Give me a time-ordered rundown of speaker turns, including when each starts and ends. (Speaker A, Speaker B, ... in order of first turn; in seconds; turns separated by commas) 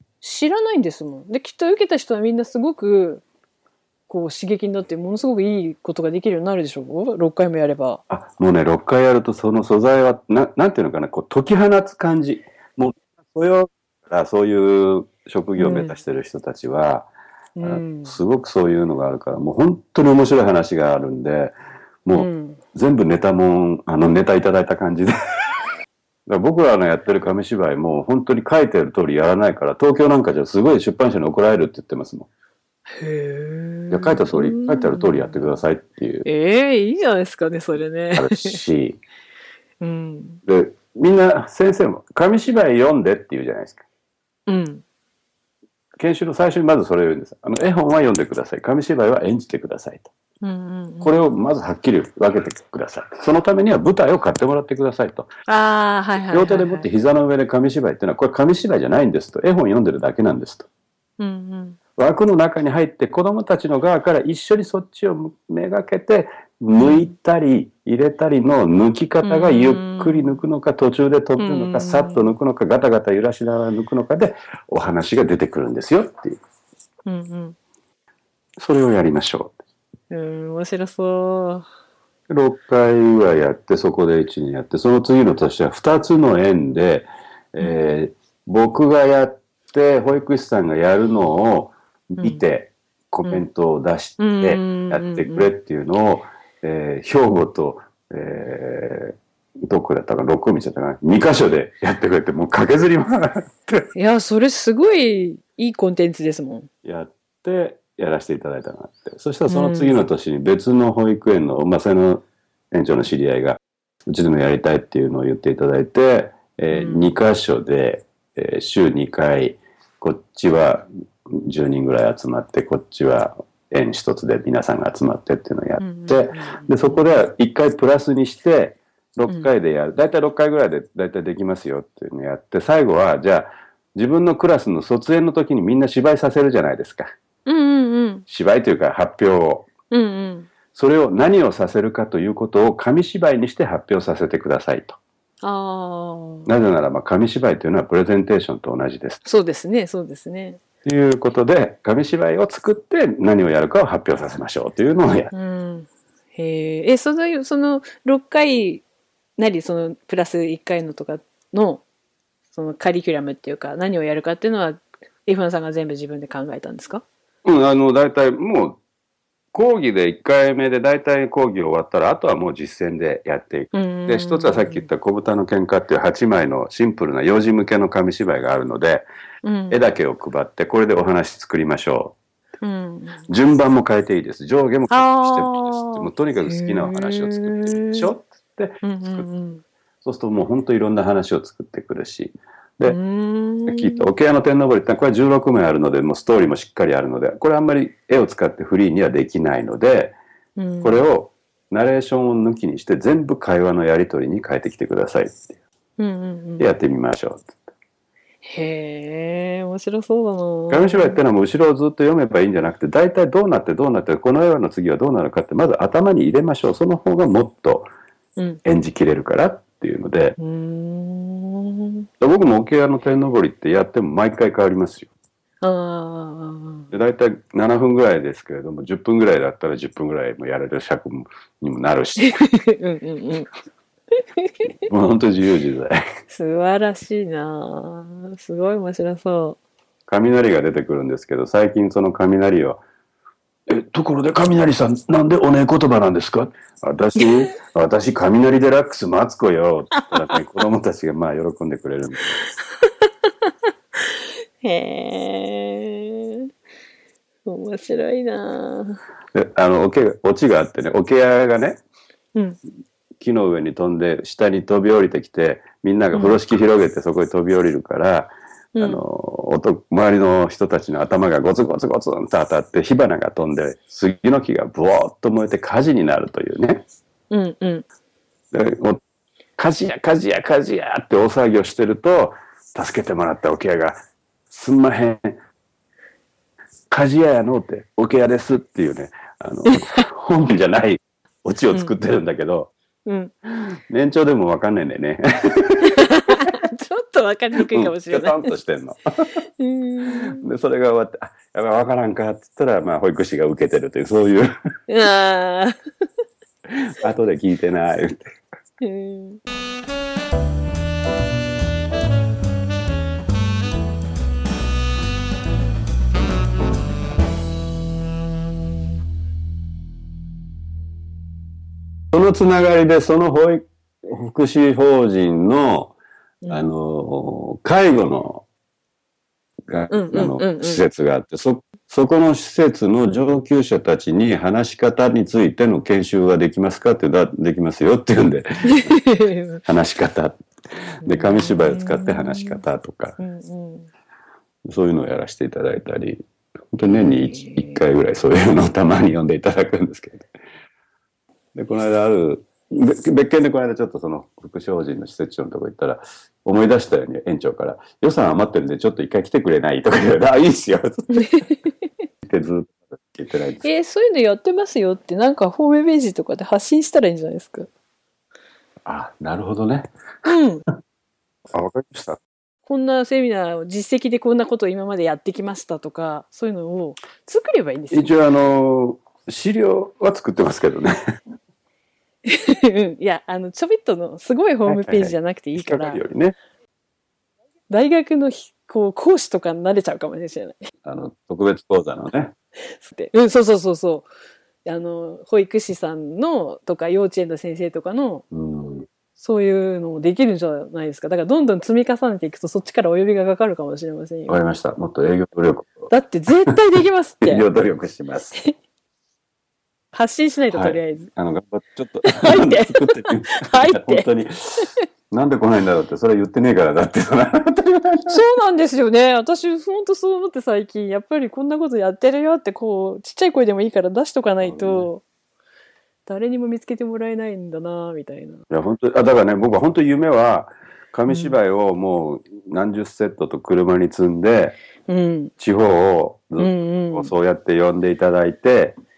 Speaker A: 0.2-3.2, Speaker A: 4.1-8.0, Speaker B: 8.1-17.1, Speaker A: 15.6-16.0, Speaker A: 17.6-18.2, Speaker B: 17.6-25.1, Speaker A: 22.1-22.6, Speaker B: 26.3-32.3, Speaker A: 32.9-35.6, Speaker B: 33.9-36.2, Speaker A: 36.2-38.6, Speaker B: 38.1-39.0, Speaker A: 39.8-40.4, Speaker B: 40.5-43.8, Speaker A: 44.5-44.8, Speaker B: 46.0-50.1, Speaker A: 50.4-51.2, Speaker B: 51.0-55.3, Speaker A: 55.5-56.9, Speaker B: 56.3-60.7, Speaker A: 61.2-61.8, Speaker B: 62.0-76.4, Speaker A: 66.7-67.1, Speaker A: 69.2-70.4, Speaker A: 71.4-72.3, Speaker A: 77.0-77.6, Speaker B: 78.6-79.6, Speaker A: 80.1-81.7, Speaker B: 82.3-103.9, Speaker A: 94.2-95.5, Speaker A: 103.9-106.7, Speaker B: 106.8-137.1, Speaker A: 109.5-110.0, Speaker A: 116.7-117.2, Speaker A: 125.8-127.1, Speaker A: 137.4-138.2, Speaker B: 138.3-139.7, Speaker A: 139.9-140.5, Speaker B: 140.7-145.0, Speaker A: 145.4-146.5, Speaker B: 146.4-149.2, Speaker A: 149.2-150.6, Speaker B: 150.8-155.3, Speaker A: 155.3-158.8, Speaker A: 159.4-161.8, Speaker A: 162.5-167.0, Speaker B: 167.4-168.8, Speaker B: 169.5-179.1, Speaker A: 173.7-174.9, Speaker A: 179.4-179.8, Speaker B: 179.7-182.2, Speaker A: 182.6-183.2, Speaker B: 183.3-189.2, Speaker A: 184.9-188.1, Speaker A: 188.8-189.6, Speaker B: 190.0-193.0, Speaker A: 192.8-194.0, Speaker B: 193.7-200.2, Speaker A: 200.6-201.0, Speaker B: 200.8-205.6, Speaker A: 206.0-206.7, Speaker B: 206.6-207.6, Speaker A: 208.4-211.2, Speaker B: 210.7-217.9, Speaker B: 218.6-220.3, Speaker A: 220.4-222.1, Speaker B: 222.2-225.1, Speaker A: 225.6-226.9, Speaker B: 226.9-232.4, Speaker A: 232.2-233.5, Speaker A: 234.4-234.7, Speaker B: 234.8-236.0, Speaker A: 236.3-239.6, Speaker B: 240.1-242.8, Speaker B: 243.7-252.4, Speaker A: 247.2-247.5, Speaker A: 249.9-250.2, Speaker A: 252.8-253.5, Speaker A: 254.6-256.4, Speaker A: 257.4-259.0, Speaker B: 259.3-261.8, Speaker B: 263.2-276.8, Speaker A: 266.1-266.4, Speaker A: 268.7-269.0, Speaker A: 277.3-277.8, Speaker B: 278.5-279.0, Speaker B: 279.6-284.0, Speaker B: 284.5-285.4, Speaker B: 286.9-292.7, Speaker A: 289.7-290.0, Speaker A: 293.1-293.3, Speaker B: 293.4-296.5, Speaker A: 295.9-298.5, Speaker B: 297.6-299.0, Speaker A: 299.6-300.4, Speaker B: 300.1-304.5, Speaker A: 304.9-305.8, Speaker B: 306.7-308.4, Speaker A: 308.8-309.4, Speaker B: 322.1-325.9, Speaker A: 326.4-326.7, Speaker B: 326.5-328.4, Speaker B: 329.7-339.0, Speaker A: 329.9-330.8, Speaker A: 338.7-339.6, Speaker B: 339.6-340.4, Speaker B: 341.0-343.2, Speaker A: 341.0-342.6, Speaker A: 343.2-343.9, Speaker B: 344.6-350.3, Speaker A: 346.8-347.8, Speaker B: 351.5-361.5, Speaker A: 361.1-361.6, Speaker B: 362.2-363.7, Speaker A: 363.6-367.7, Speaker B: 368.9-369.9, Speaker A: 370.2-370.6, Speaker B: 371.5-372.2, Speaker A: 372.6-378.1, Speaker B: 377.9-380.9, Speaker A: 382.2-386.0, Speaker B: 384.7-386.4, Speaker A: 387.7-390.7, Speaker B: 390.8-392.3, Speaker A: 392.8-394.1, Speaker A: 394.6-398.2, Speaker B: 398.3-398.9, Speaker A: 399.2-404.4, Speaker B: 404.3-405.9, Speaker A: 405.9-407.4, Speaker B: 407.2-408.4, Speaker A: 409.9-411.1, Speaker B: 410.5-418.2, Speaker A: 412.0-414.1, Speaker A: 418.1-425.0, Speaker B: 424.4-424.9, Speaker A: 426.1-428.4, Speaker B: 428.5-434.6, Speaker A: 431.1-431.4, Speaker A: 434.9-435.3, Speaker B: 435.4-438.8, Speaker A: 436.4-437.1